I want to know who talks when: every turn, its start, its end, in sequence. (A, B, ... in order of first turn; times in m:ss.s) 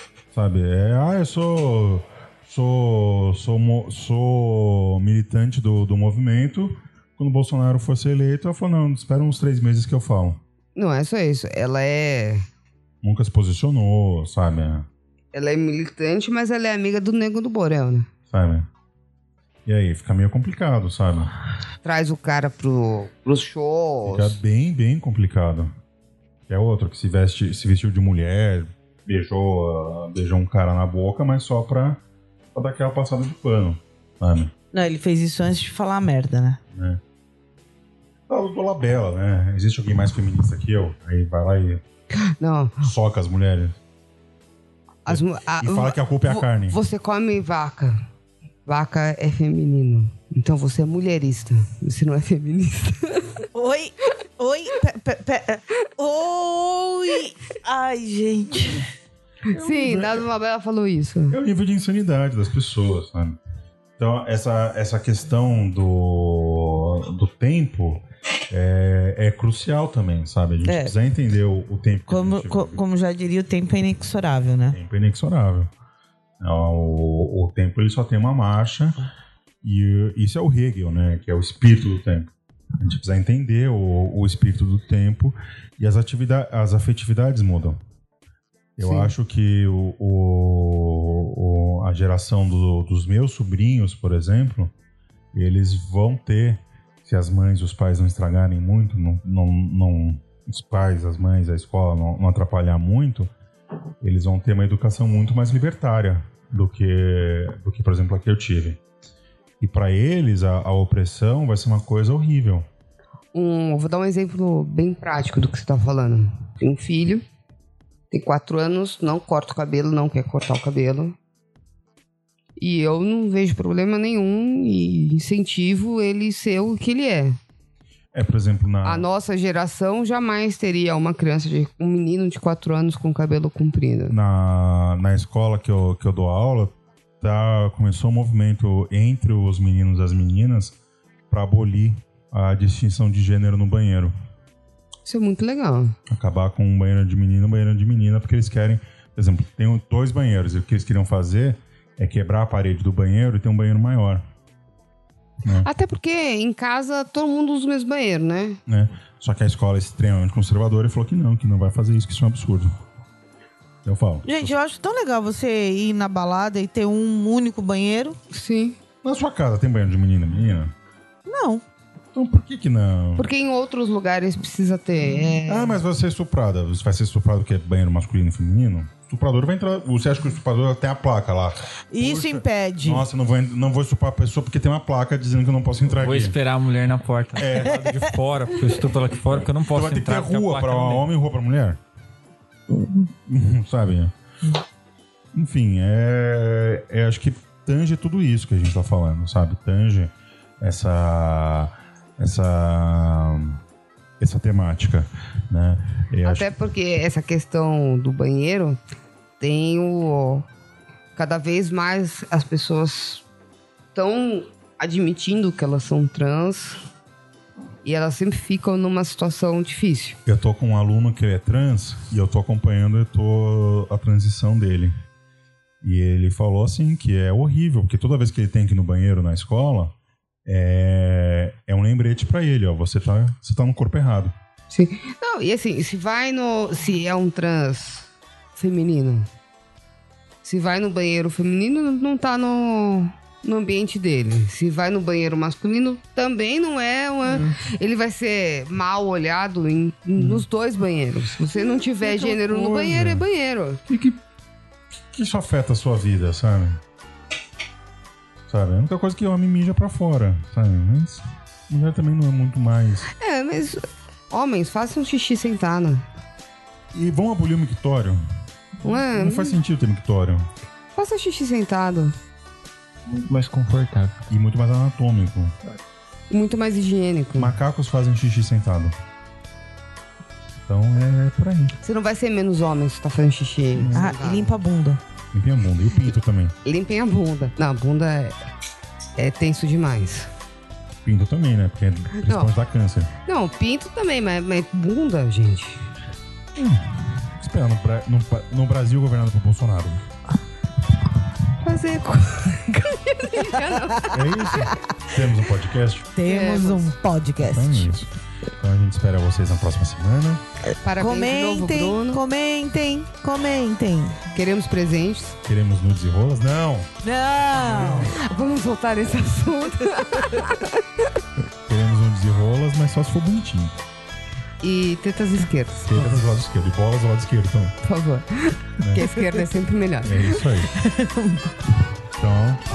0:00.3-0:10.4 A
0:10.8-0:12.4 B
0:13.0-0:14.9 A
0:15.3-0:18.1 B
0:18.3-0:18.7 A
0:19.6-0:21.3 A
0:21.8-0:24.4 B
0:24.0-0:25.7 A
0:26.5-0:32.0 A
0:32.5-0:34.5 A
0:34.7-0:36.6 C
0:36.7-0:37.0 A
0:38.3-0:41.8 A
0:42.2-0:42.9 B
0:42.8-0:43.7 A
0:45.0-0:48.0 B
0:45.1-0:46.8 A
0:48.6-0:53.4 B
0:53.5-0:58.8 C
0:59.5-1:00.2 A
0:59.5-1:01.4 B
1:01.3-1:03.4 A
1:04.0-1:12.8 A
1:10.6-1:10.9 C
1:12.1-1:14.8 C
1:14.7-1:15.7 A
1:16.4-1:19.0 A
1:19.6-1:27.8 A
1:28.8-1:34.7 A
1:28.8-1:29.1 B
1:35.3-1:43.3 A
1:44.0-1:48.8 A
1:49.6-1:52.6 A
1:53.3-1:57.2 B
1:58.1-2:01.2 B
2:02.6-2:07.4 B
2:08.1-2:09.1 A
2:08.8-2:14.1 B
2:14.1-2:20.8 A
2:21.3-2:24.1 A
2:25.0-2:25.9 B
2:26.1-2:34.2 A
2:35.5-2:38.6 B
2:38.7-2:42.7 A
2:43.8-2:44.5 A
2:44.2-2:48.2 C
2:48.3-2:48.8 B
2:49.0-2:50.7 A
2:51.2-2:51.6 C
2:52.1-2:53.3 A
2:53.2-2:55.8 B
2:55.5-3:06.4 A
3:01.9-3:03.0 C
3:06.0-3:11.1 D
3:07.4-3:08.0 A
3:09.2-3:11.8 A
3:13.2-3:14.1 A
3:15.3-3:23.6 A
3:24.2-3:26.5 A
3:26.2-3:28.8 B
3:29.4-3:30.4 B
3:31.2-3:33.2 B
3:33.9-3:36.8 B
3:37.8-3:40.2 B
3:40.2-3:45.0 A
3:45.8-3:49.9 A
3:50.4-3:54.3 A
3:54.7-3:59.3 B
4:00.4-4:13.8 B
4:07.2-4:07.6 A
4:10.2-4:10.4 A
4:12.0-4:13.2 A
4:13.9-4:14.2 A
4:15.1-4:16.8 A
4:18.5-4:23.1 A
4:23.2-4:26.0 B
4:26.9-4:28.2 A
4:28.8-4:29.6 B
4:28.8-4:30.5 A
4:31.0-4:32.1 B
4:33.0-4:34.2 D
4:34.3-4:35.5 A
4:36.3-4:37.5 B
4:37.3-4:38.9 A
4:40.6-4:41.7 A
4:41.8-4:44.5 B
4:43.7-4:44.1 A
4:43.9-4:45.0 C
4:45.3-4:46.5 A
4:46.6-4:48.4 B
4:49.2-4:50.3 B
4:51.0-4:53.1 A
4:52.1-4:52.5 B
4:53.2-4:55.9 B
4:56.5-5:00.0 A
5:01.6-5:04.6 B
5:04.1-5:06.1 A
5:06.2-5:07.9 C
5:06.2-5:06.9 B
5:07.4-5:10.4 A
5:10.8-5:12.2 B
5:11.0-5:14.2 C
5:14.3-5:15.4 B
5:15.4-5:16.9 A
5:17.0-5:18.1 C
5:17.6-5:18.1 A
5:17.9-5:20.8 B
5:21.6-5:23.8 A
5:24.6-5:26.2 B
5:25.8-5:27.8 A
5:27.8-5:30.4 B
5:28.8-5:29.0 A
5:30.0-5:30.7 A
5:30.7-5:31.5 C
5:32.1-5:32.6 A